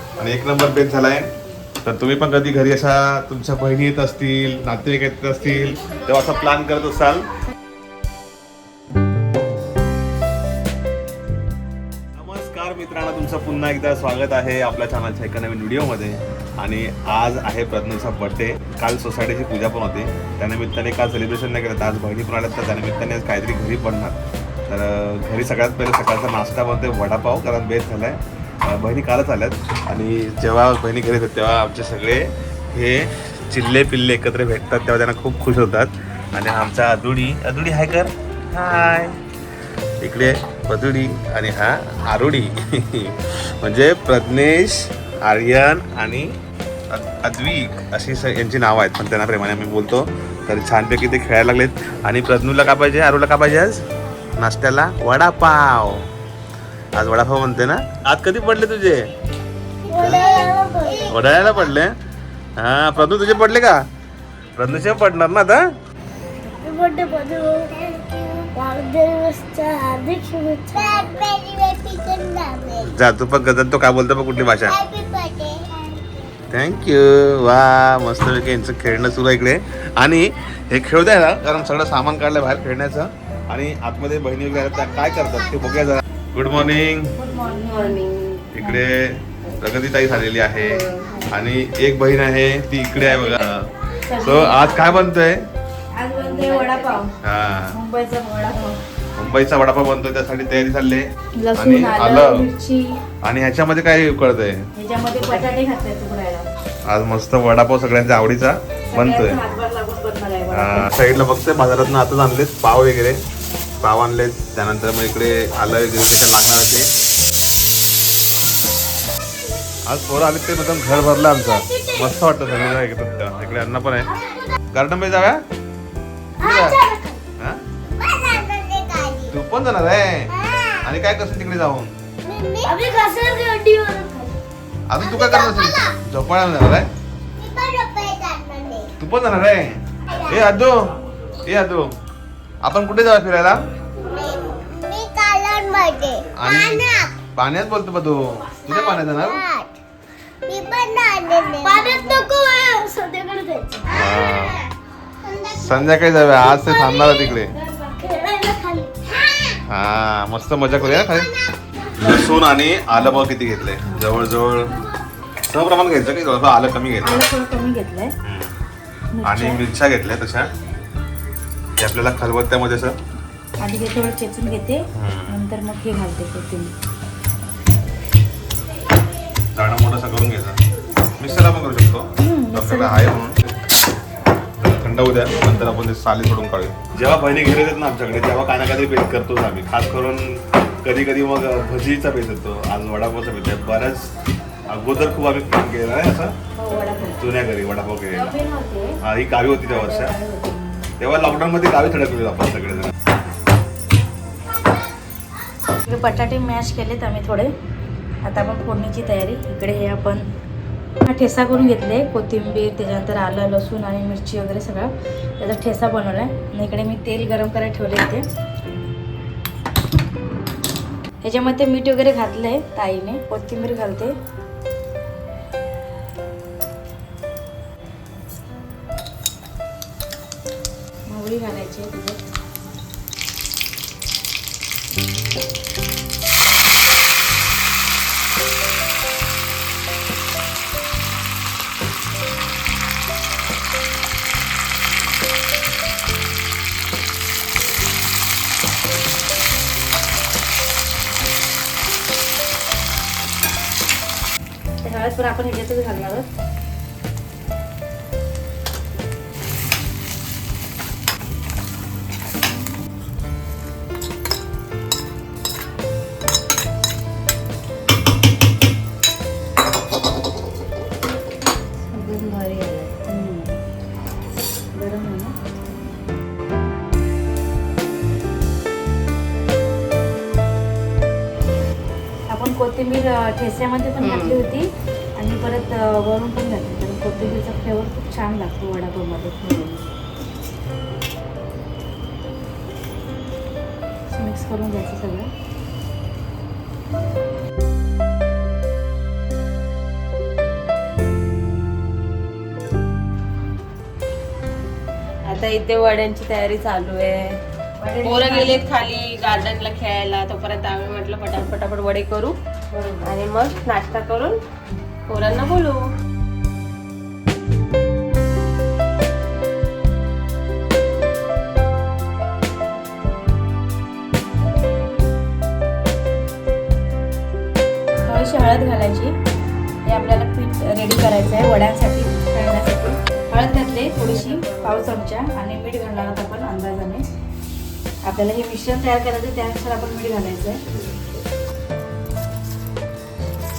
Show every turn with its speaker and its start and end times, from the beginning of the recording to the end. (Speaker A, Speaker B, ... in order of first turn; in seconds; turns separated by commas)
Speaker A: 0.2-1.3, Speaker A: 1.8-7.3, Speaker A: 12.2-39.2, Speaker A: 40.0-46.3, Speaker A: 46.9-53.8, Speaker A: 54.4-56.1, Speaker A: 56.9-59.1, Speaker B: 59.8-61.6, Speaker A: 59.9-60.3, Speaker A: 61.1-62.0, Speaker A: 62.6-63.8, Speaker A: 64.6-65.6, Speaker B: 66.6-72.9, Speaker A: 72.8-74.8, Speaker B: 74.7-76.3, Speaker A: 76.5-87.1, Speaker B: 84.7-85.5, Speaker C: 87.1-88.0, Speaker D: 87.9-88.4, Speaker A: 88.5-93.7, Speaker C: 94.0-95.1, Speaker A: 94.2-95.5, Speaker C: 95.9-97.1, Speaker D: 96.2-97.0, Speaker A: 97.2-97.8, Speaker C: 97.7-98.8, Speaker A: 99.2-102.4, Speaker C: 101.4-103.0, Speaker A: 103.2-104.7, Speaker C: 104.7-106.5, Speaker A: 106.8-109.4, Speaker C: 108.9-110.9, Speaker A: 110.5-113.2, Speaker A: 113.8-116.9, Speaker A: 119.8-124.1, Speaker B: 121.5-122.1, Speaker A: 124.7-125.4, Speaker A: 126.4-126.8, Speaker B: 126.4-127.2, Speaker B: 128.0-129.3, Speaker A: 129.3-130.3, Speaker B: 130.3-130.8, Speaker A: 130.8-131.9, Speaker B: 132.2-132.8, Speaker C: 132.7-134.3, Speaker A: 134.9-136.9, Speaker B: 135.0-136.0, Speaker B: 137.4-138.9, Speaker A: 139.0-140.8, Speaker A: 141.4-141.8, Speaker A: 142.6-143.6, Speaker B: 144.1-147.1, Speaker A: 146.3-149.4, Speaker B: 148.7-149.7, Speaker B: 150.4-154.7, Speaker C: 151.8-152.3, Speaker C: 153.2-153.5, Speaker A: 153.9-154.6, Speaker B: 155.2-157.2, Speaker A: 155.5-157.5, Speaker B: 158.0-159.6, Speaker A: 159.7-161.3, Speaker B: 160.9-161.5, Speaker A: 161.9-164.8, Speaker A: 165.5-167.2, Speaker C: 167.0-168.1, Speaker A: 168.2-168.5, Speaker C: 169.1-169.6, Speaker A: 169.2-170.5, Speaker A: 171.8-173.0, Speaker C: 173.6-176.7, Speaker A: 174.9-175.4, Speaker A: 179.6-180.6, Speaker A: 181.2-183.4, Speaker C: 182.2-183.1, Speaker A: 184.6-194.1, Speaker C: 185.4-185.8, Speaker A: 194.7-196.3, Speaker C: 196.6-197.2, Speaker A: 197.2-198.3, Speaker C: 198.1-199.0, Speaker A: 199.0-200.1, Speaker C: 199.6-200.6, Speaker A: 201.0-202.9, Speaker C: 205.7-207.5, Speaker C: 208.2-210.3, Speaker C: 211.0-218.2, Speaker C: 221.2-224.1, Speaker C: 231.1-232.2, Speaker C: 254.8-256.2, Speaker D: 271.9-272.9, Speaker C: 273.1-273.6, Speaker C: 274.7-275.3, Speaker C: 282.3-289.4, Speaker D: 284.0-284.3, Speaker D: 289.4-289.8, Speaker C: 294.1-295.3, Speaker D: 305.3-307.3, Speaker C: 307.8-308.7, Speaker D: 308.0-312.3, Speaker C: 312.7-313.1, Speaker D: 313.0-314.4, Speaker D: 315.1-315.8, Speaker C: 328.0-329.1, Speaker C: 329.9-337.0, Speaker C: 338.1-340.6